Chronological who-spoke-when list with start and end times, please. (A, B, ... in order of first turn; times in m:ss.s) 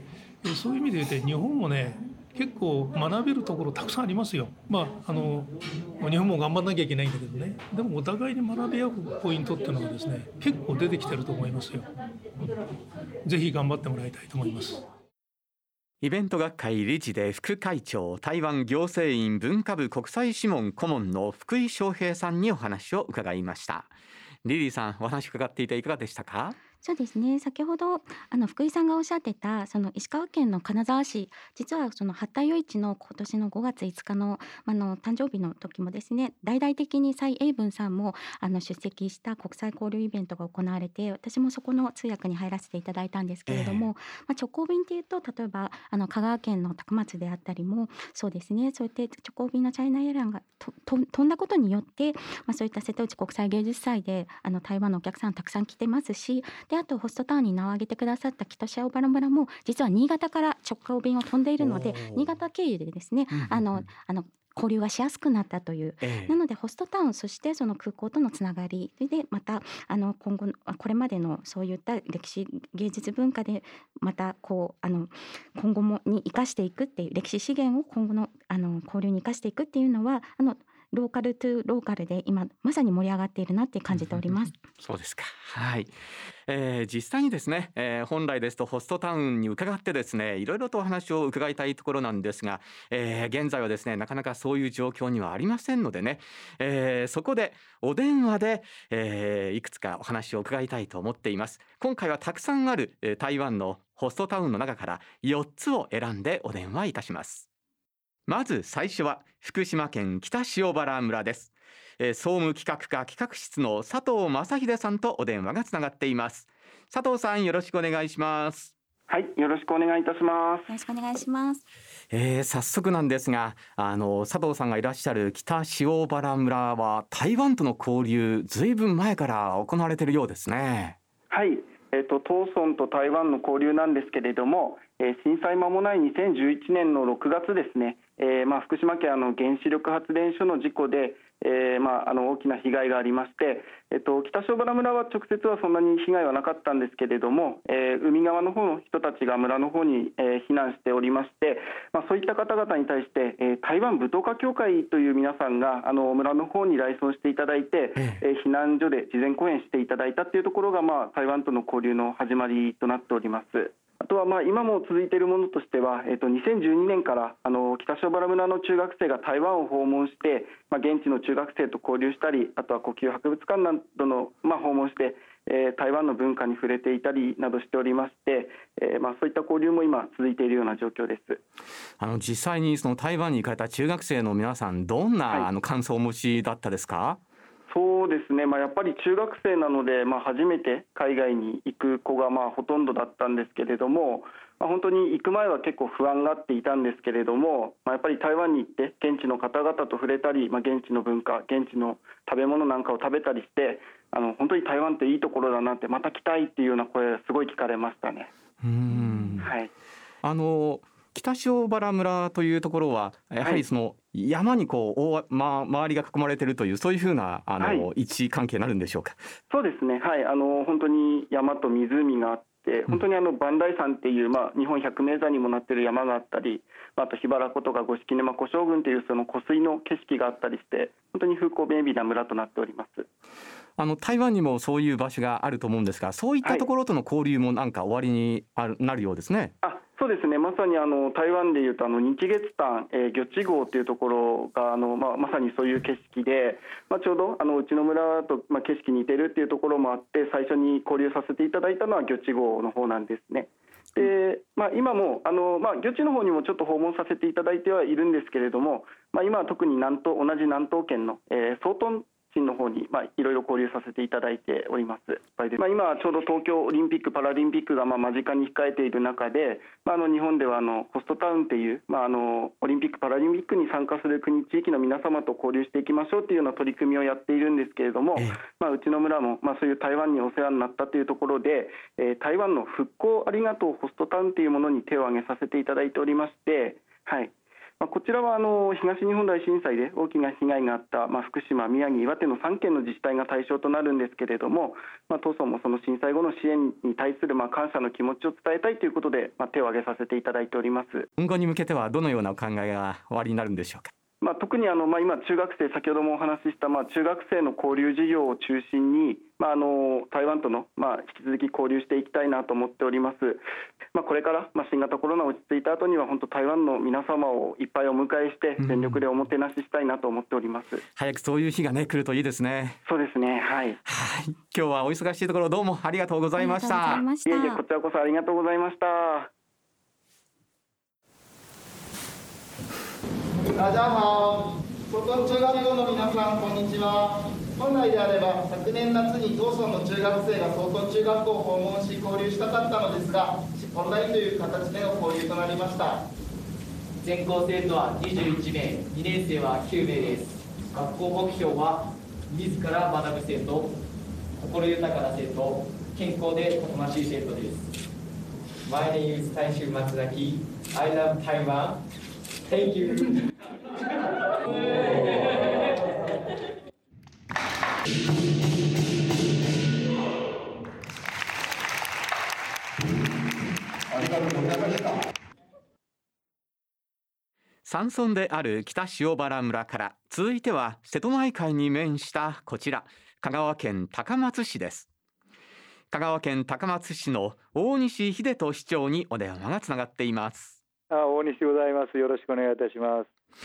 0:00.4-0:11.9 A
0:13.2-0:14.8 A
0:16.0-0:23.9 B
0:24.4-0:26.6 B
0:26.8-1:24.5 C
0:43.5-0:43.9 B
1:01.6-1:02.3 B
1:03.3-1:03.9 B
1:06.0-1:06.4 B
1:24.0-1:24.2 B
1:24.8-1:25.9 B
1:26.5-1:47.5 B
1:48.3-1:58.7 B
1:59.1-2:00.7 D
2:00.7-2:01.6 C
2:02.1-2:11.0 B
2:11.3-3:01.4 D
2:38.0-2:38.2 B
3:02.0-3:07.2 B
3:07.7-3:28.3 D
3:28.6-3:29.5 B
3:29.4-3:29.7 D
3:30.2-3:39.3 B
3:37.6-3:37.9 D
3:39.5-3:53.1 D
3:53.8-3:59.5 B
3:59.6-5:01.1 D
4:38.2-4:38.4 B
5:01.2-5:03.9 B
5:04.2-5:13.4 D
5:14.0-5:20.8 D
5:18.6-5:19.0 B
5:21.0-5:22.8 B
5:22.9-5:23.8 D
5:23.8-5:27.0 B
5:26.4-5:27.6 C
5:27.3-5:29.3 D
5:33.5-5:46.1 E
5:47.0-5:53.8 F
5:54.4-5:57.7 F
5:58.7-6:01.8 F
6:02.4-6:03.2 F
6:04.7-6:05.4 F
6:14.0-6:14.9 E
6:17.6-6:24.9 B
6:25.9-6:30.6 B
6:30.9-6:33.1 G